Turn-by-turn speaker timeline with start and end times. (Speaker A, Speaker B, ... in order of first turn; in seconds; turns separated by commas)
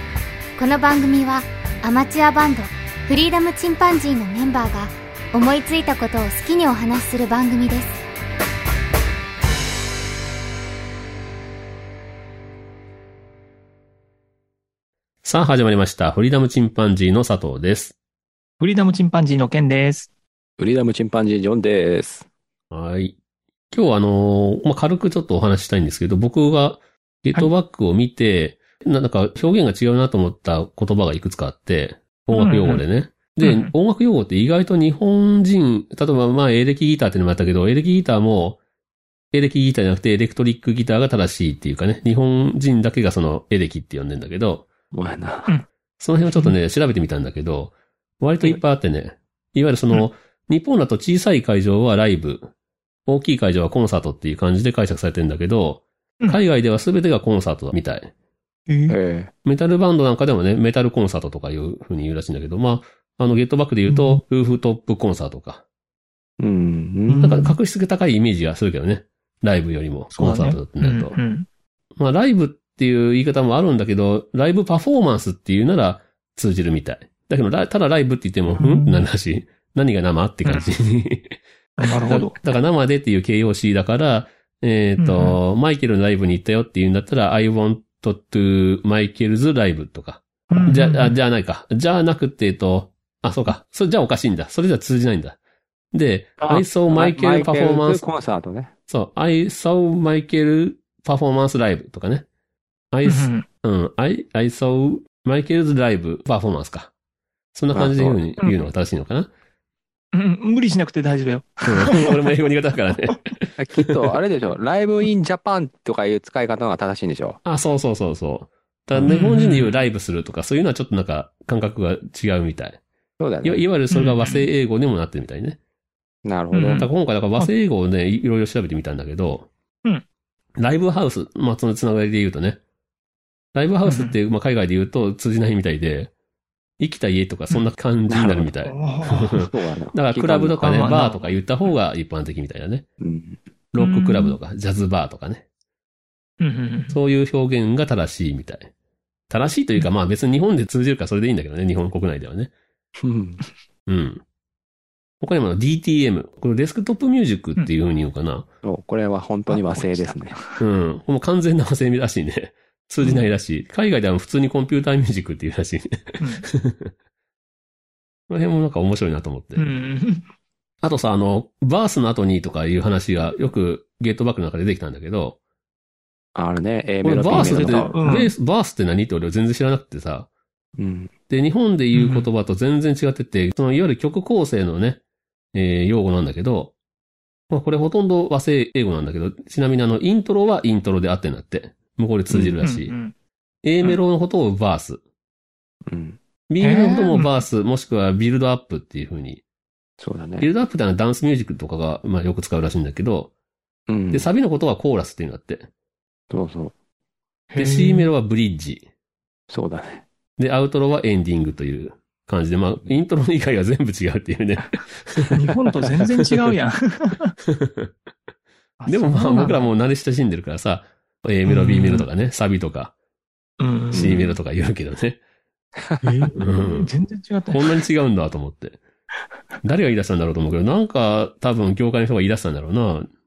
Speaker A: 0.6-8.0, Speaker B: 15.2-17.9, Speaker C: 18.6-20.1, Speaker D: 20.6-22.3, Speaker B: 22.7-23.1, Speaker B: 23.7-38.6, Speaker C: 32.3-32.8, Speaker C: 33.4-33.7, Speaker B: 39.3-44.7, Speaker D: 44.9-45.5, Speaker B: 46.0-52.5, Speaker C: 46.3-46.5, Speaker B: 53.0-58.1, Speaker C: 58.7-59.0, Speaker D: 58.9-59.3, Speaker B: 59.4-65.6, Speaker C: 63.9-64.2, Speaker D: 66.4-67.2, Speaker C: 67.1-67.6, Speaker B: 67.2-71.2, Speaker C: 70.1-71.5, Speaker B: 72.0-95.4, Speaker C: 78.5-79.0, Speaker C: 80.4-80.7, Speaker C: 81.8-82.3, Speaker C: 85.0-85.4, Speaker C: 90.5-91.2, Speaker B: 95.9-98.0, Speaker D: 96.4-98.7, Speaker B: 98.9-102.2, Speaker B: 102.9-106.9, Speaker C: 103.0-103.5, Speaker B: 107.5-109.3, Speaker D: 107.7-108.2, Speaker C: 108.4-108.7, Speaker C: 110.1-112.3, Speaker B: 111.6-114.1, Speaker D: 113.6-117.4, Speaker B: 117.4-122.8, Speaker C: 119.0-119.8, Speaker D: 123.2-123.6, Speaker B: 123.4-125.6, Speaker C: 123.9-124.5, Speaker D: 126.2-126.9, Speaker C: 126.5-127.5, Speaker B: 126.8-129.5, Speaker B: 130.6-132.6, Speaker B: 133.5-136.1, Speaker C: 133.8-134.2, Speaker B: 136.8-142.8, Speaker D: 138.1-138.5, Speaker C: 138.6-139.4, Speaker D: 139.3-140.8, Speaker C: 140.6-141.4, Speaker D: 143.0-143.4, Speaker B: 143.7-145.4, Speaker C: 143.8-144.4, Speaker C: 146.4-147.0, Speaker B: 146.9-148.7, Speaker B: 149.3-152.5, Speaker D: 153.0-153.4, Speaker B: 153.9-154.2, Speaker B: 155.2-158.4, Speaker D: 158.6-160.4, Speaker C: 159.5-160.6, Speaker B: 160.6-166.9, Speaker C: 166.2-166.4, Speaker B: 168.3-169.6, Speaker C: 169.6-170.2, Speaker B: 170.8-175.4, Speaker D: 176.3-177.9, Speaker B: 177.0-180.3, Speaker C: 177.2-178.3, Speaker D: 180.8-181.1, Speaker B: 181.3-185.0, Speaker C: 181.9-182.3, Speaker B: 185.5-186.7, Speaker B: 187.5-192.9, Speaker D: 192.3-192.6, Speaker C: 192.6-193.1, Speaker B: 193.6-195.0, Speaker D: 195.9-196.2, Speaker B: 196.5-199.4, Speaker C: 196.6-197.4, Speaker D: 200.0-200.5, Speaker B: 200.4-203.3, Speaker D: 203.9-204.3, Speaker B: 204.1-205.7, Speaker D: 206.3-206.7, Speaker C: 207.5-208.1, Speaker B: 207.6-208.8, Speaker D: 209.5-210.0, Speaker B: 210.4-215.4, Speaker C: 215.3-217.3, Speaker B: 217.5-217.9, Speaker C: 218.8-219.7, Speaker B: 218.9-222.9, Speaker C: 221.4-222.1, Speaker C: 223.6-224.2, Speaker D: 223.9-224.4, Speaker B: 223.9-225.2, Speaker D: 225.8-226.3, Speaker C: 226.0-227.8, Speaker B: 226.4-226.9, Speaker B: 227.5-228.8, Speaker B: 229.6-233.1